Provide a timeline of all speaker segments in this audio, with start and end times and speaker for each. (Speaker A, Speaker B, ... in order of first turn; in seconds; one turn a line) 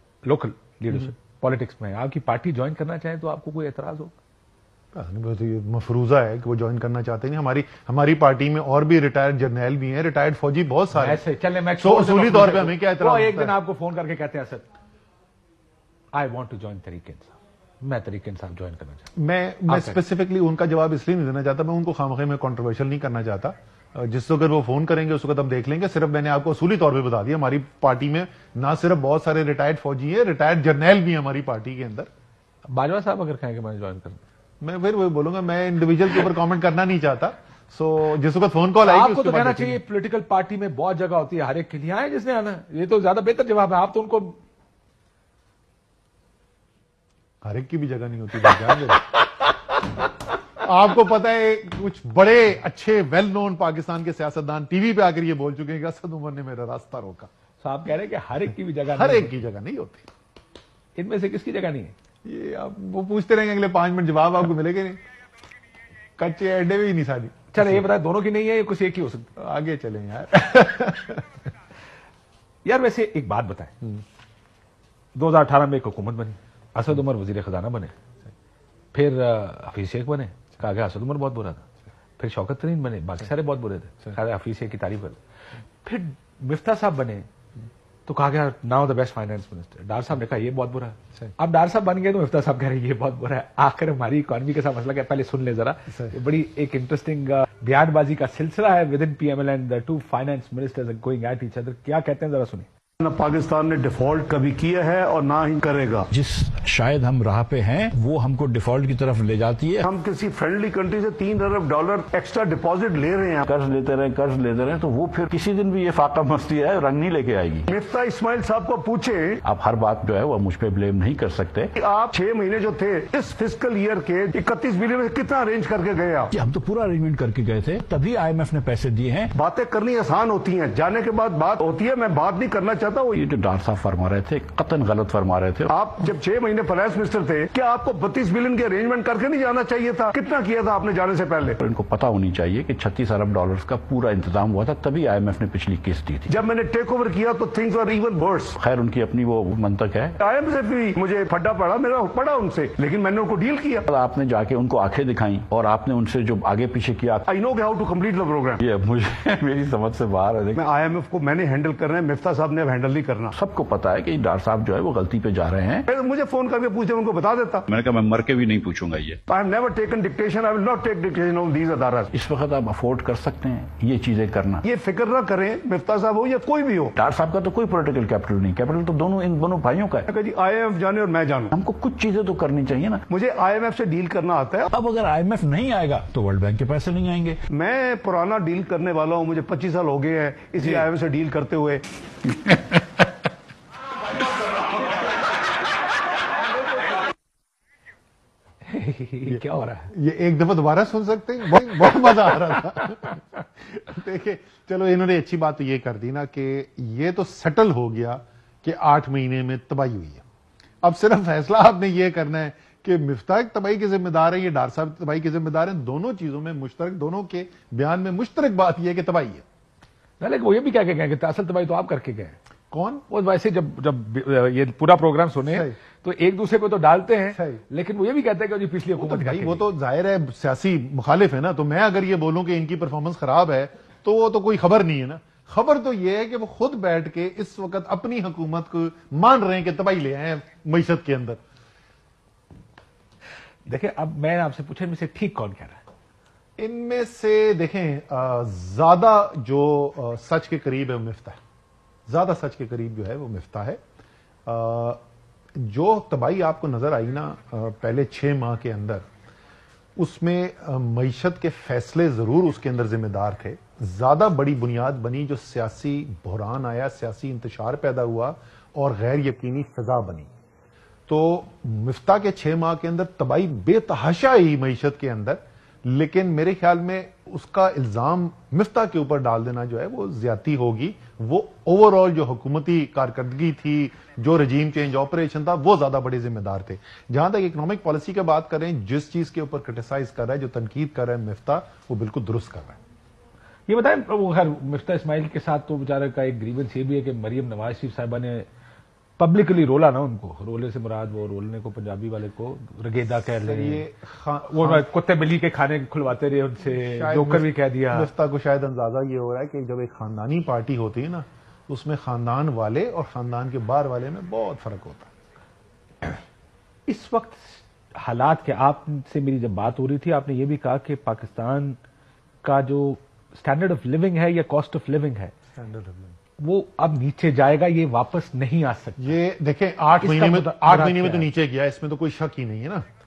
Speaker A: 0.2-4.1
Speaker B: 4.9-11.2
Speaker A: 10.9-14.7
Speaker B: 11.8-13.5
Speaker A: 16.1-19.1
Speaker B: 19.1-32.1
Speaker A: 19.7-20.0
Speaker A: 32.7-34.2
Speaker B: 34.6-39.8
Speaker A: 38.8-44.4
Speaker B: 47.4-49.1
Speaker B: 50.6-57.3
Speaker A: 57.6-59.4
Speaker B: 58.9-60.0
Speaker A: 61.0-61.9
Speaker B: 62.2-65.0
Speaker B: 66.2-67.8
Speaker A: 67.5-69.3
Speaker B: 69.4-71.2
Speaker A: 72.6-73.7
Speaker A: 75.1-77.9
Speaker A: 78.9-81.6
Speaker A: 82.2-85.2
Speaker A: 85.8-87.3
Speaker A: 88.1-102.7
Speaker C: 103.0-106.1
Speaker D: 106.1-109.8
Speaker C: 109.8-113.4
Speaker D: 113.4-117.7
Speaker C: 117.7-119.4
Speaker D: 119.4-121.7
Speaker C: 121.8-126.3
Speaker D: 126.3-129.3
Speaker C: 129.3-133.2
Speaker D: 133.1-135.7
Speaker C: 135.7-141.6
Speaker D: 141.6-146.3
Speaker C: 146.3-148.6
Speaker D: 148.6-150.2
Speaker C: 150.2-153.8
Speaker D: 153.8-157.3
Speaker C: 157.3-158.6
Speaker D: 158.6-160.6
Speaker C: 160.6-163.3
Speaker D: 163.3-165.8
Speaker C: 165.9-167.7
Speaker D: 167.7-169.2
Speaker C: 169.3-172.1
Speaker D: 172.1-174.6
Speaker C: 174.6-176.9
Speaker D: 176.9-180.1
Speaker C: 180.1-181.5
Speaker D: 181.5-183.0
Speaker C: 183.1-184.7
Speaker D: 184.7-187.4
Speaker C: 187.5-191.8
Speaker D: 192.2-192.8
Speaker A: 198.6-199.9
Speaker B: 199.2-210.2
Speaker B: 210.8-219.4
Speaker A: 220.2-222.3
Speaker B: 222.7-223.0
Speaker A: 223.1-229.7
Speaker B: 225.5-225.7
Speaker B: 227.3-227.6
Speaker B: 228.9-241.4
Speaker A: 243.7-245.8
Speaker B: 246.6-251.4
Speaker B: 252.1-253.8
Speaker B: 254.4-255.0
Speaker B: 255.6-259.0
Speaker B: 260.0-270.3
Speaker B: 271.1-292.8
Speaker A: 293.7-298.4
Speaker A: 299.2-303.8
Speaker B: 303.3-304.9
Speaker A: 304.4-308.1
Speaker B: 306.7-315.1
Speaker A: 316.9-321.8
Speaker A: 322.4-325.3
Speaker B: 325.6-326.1
Speaker A: 326.4-329.2
Speaker B: 329.0-332.8
Speaker A: 330.0-331.3